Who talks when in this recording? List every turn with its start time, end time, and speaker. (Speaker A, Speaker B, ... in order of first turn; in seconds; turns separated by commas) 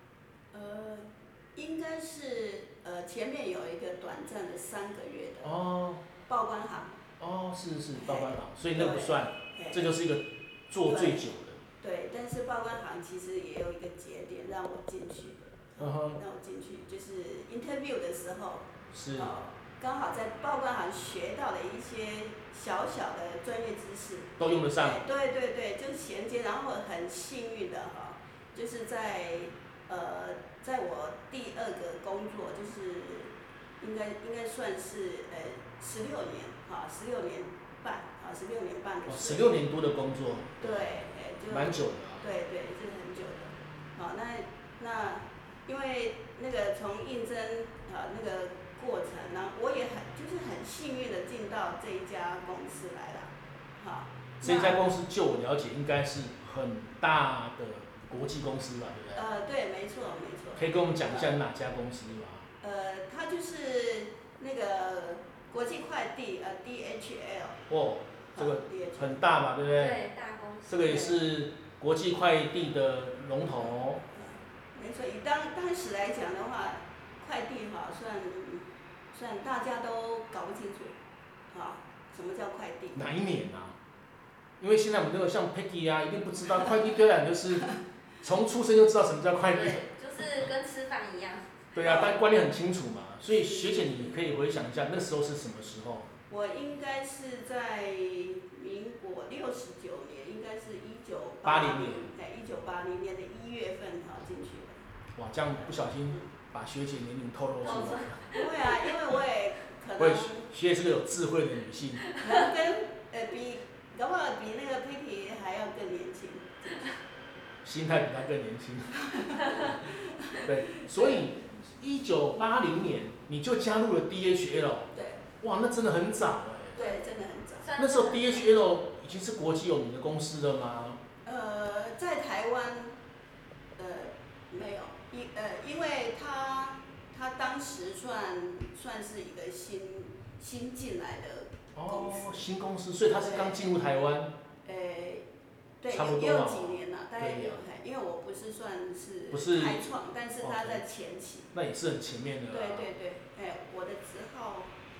Speaker A: 0.5-5.5, Speaker B: 5.4-6.0, Speaker A: 6.3-7.0, Speaker B: 7.2-11.6, Speaker A: 7.9-9.9, Speaker A: 10.8-11.2, Speaker A: 11.8-39.7, Speaker B: 15.8-16.2, Speaker B: 18.9-19.3, Speaker B: 24.4-25.0, Speaker B: 39.0-42.2, Speaker A: 40.6-54.8, Speaker B: 54.4-59.2, Speaker A: 59.1-61.4, Speaker B: 60.5-62.5, Speaker A: 62.6-67.6, Speaker B: 67.7-70.0, Speaker A: 68.3-69.2, Speaker C: 69.7-71.2, Speaker B: 70.7-74.0, Speaker A: 74.0-81.0, Speaker A: 81.5-83.0, Speaker B: 82.9-83.8, Speaker B: 84.6-89.8, Speaker C: 89.5-91.7, Speaker B: 91.7-96.1, Speaker A: 91.8-92.2, Speaker A: 93.3-94.2, Speaker A: 96.3-104.8, Speaker B: 101.4-102.1, Speaker B: 105.2-108.2, Speaker C: 107.6-108.6, Speaker A: 108.3-110.5, Speaker B: 110.0-112.1, Speaker C: 112.1-112.5, Speaker A: 112.2-116.8, Speaker B: 117.6-119.8, Speaker A: 119.0-121.2, Speaker B: 120.4-124.9, Speaker A: 124.9-125.2, Speaker B: 125.4-126.8, Speaker A: 126.7-127.7, Speaker C: 127.6-128.7, Speaker B: 127.8-131.0, Speaker A: 131.2-132.9, Speaker A: 133.8-142.4, Speaker B: 141.7-144.3, Speaker A: 143.1-143.7, Speaker A: 144.6-145.2, Speaker A: 145.8-151.5, Speaker B: 145.9-147.6, Speaker B: 149.3-149.9, Speaker B: 150.4-150.8, Speaker B: 151.5-152.9, Speaker A: 152.5-154.7